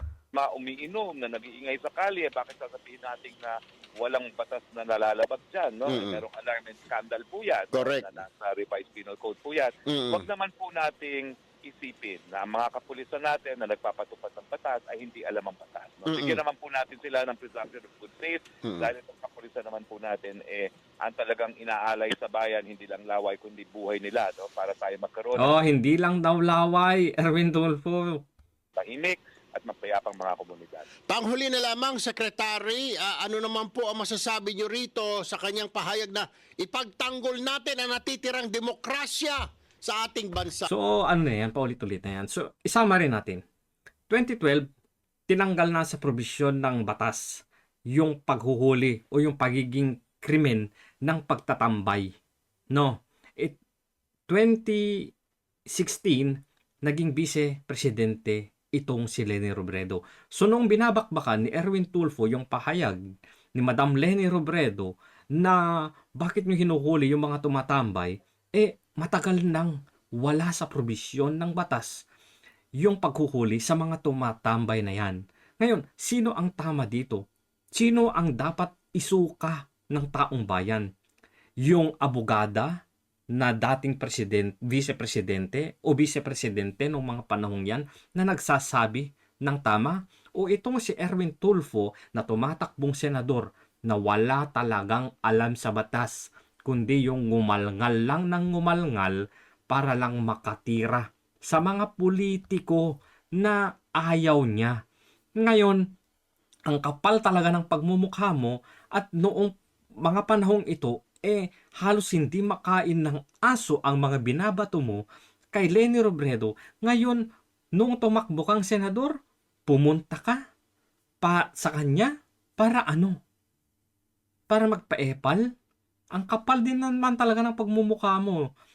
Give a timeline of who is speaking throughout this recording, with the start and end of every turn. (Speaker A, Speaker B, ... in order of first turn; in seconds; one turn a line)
Speaker A: 0.3-25.6
Speaker B: 5.9-6.2
Speaker B: 7.7-8.1
Speaker B: 9.9-10.3
Speaker B: 16.1-16.4
Speaker B: 18.6-18.9
Speaker C: 25.4-28.2
Speaker A: 28.8-30.9
Speaker B: 31.1-40.7
Speaker C: 40.7-43.4
Speaker C: 44.1-44.7
Speaker C: 45.3-52.1
Speaker C: 52.7-53.6
Speaker C: 54.3-55.1
Speaker C: 55.7-63.0
Speaker C: 63.5-65.6
Speaker C: 66.2-72.0
Speaker C: 72.8-77.2
Speaker C: 77.8-80.9
Speaker C: 81.6-82.8
Speaker C: 83.3-99.2
Speaker C: 99.7-102.8
Speaker C: 103.4-104.8
Speaker C: 105.4-105.8
Speaker C: 106.7-109.5
Speaker C: 110.0-117.2
Speaker C: 117.8-119.1
Speaker C: 119.7-120.4
Speaker C: 121.2-123.2
Speaker C: 124.5-125.4
Speaker C: 126.2-128.4